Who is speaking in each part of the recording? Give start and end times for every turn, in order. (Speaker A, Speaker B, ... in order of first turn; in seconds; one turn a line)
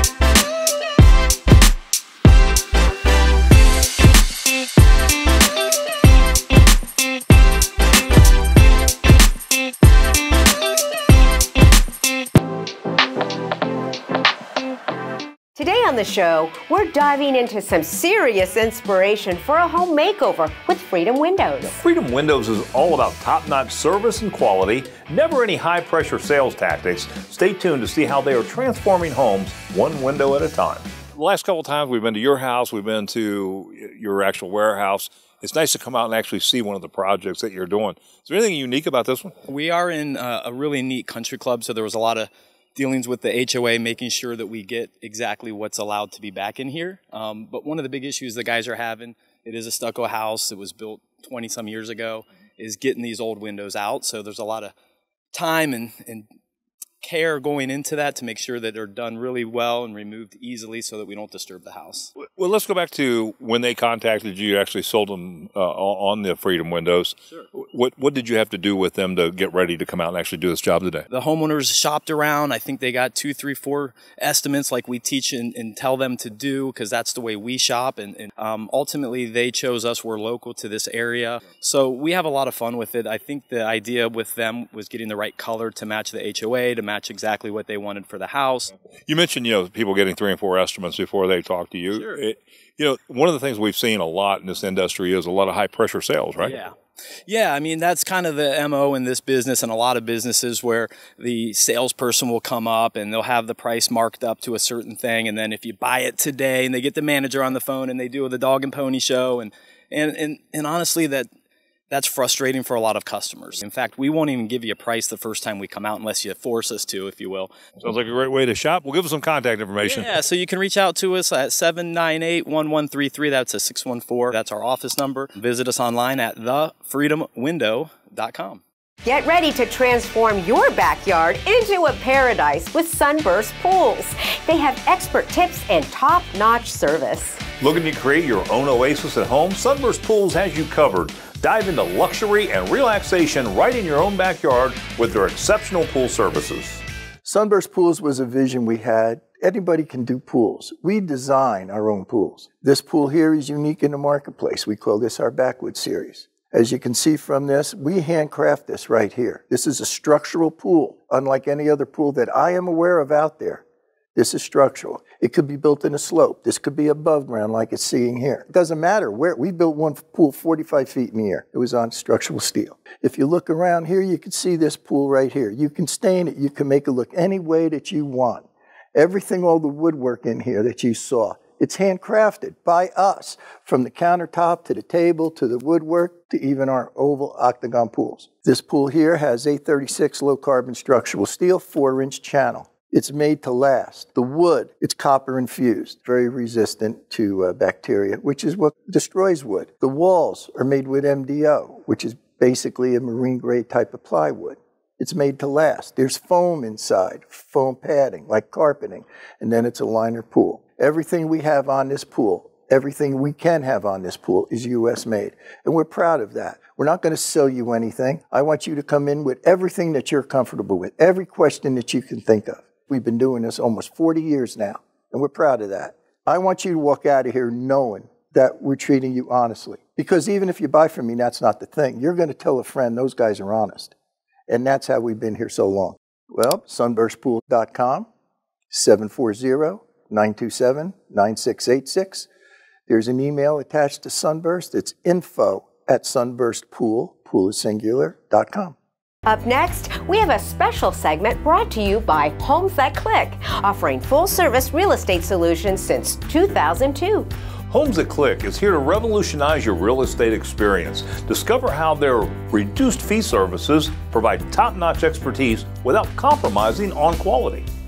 Speaker A: 15.6-21.8
Speaker B: 21.7-39.3
Speaker C: 39.5-54.7
Speaker C: 55.3-56.3
Speaker C: 57.0-62.1
Speaker B: 62.2-71.0
Speaker C: 71.1-88.7
Speaker B: 89.1-96.6
Speaker C: 91.9-92.2
Speaker C: 96.4-96.7
Speaker C: 97.3-111.3
Speaker C: 111.9-117.5
Speaker B: 117.8-120.1
Speaker C: 119.8-128.6
Speaker A: 129.0-137.4
Speaker B: 137.6-146.8
Speaker D: 147.2-163.6
Speaker D: 164.2-233.9
Speaker D: 234.5-238.1
Speaker D: 238.7-242.3
Speaker D: 242.9-248.8
Speaker A: 249.3-257.3
Speaker B: 257.7-267.7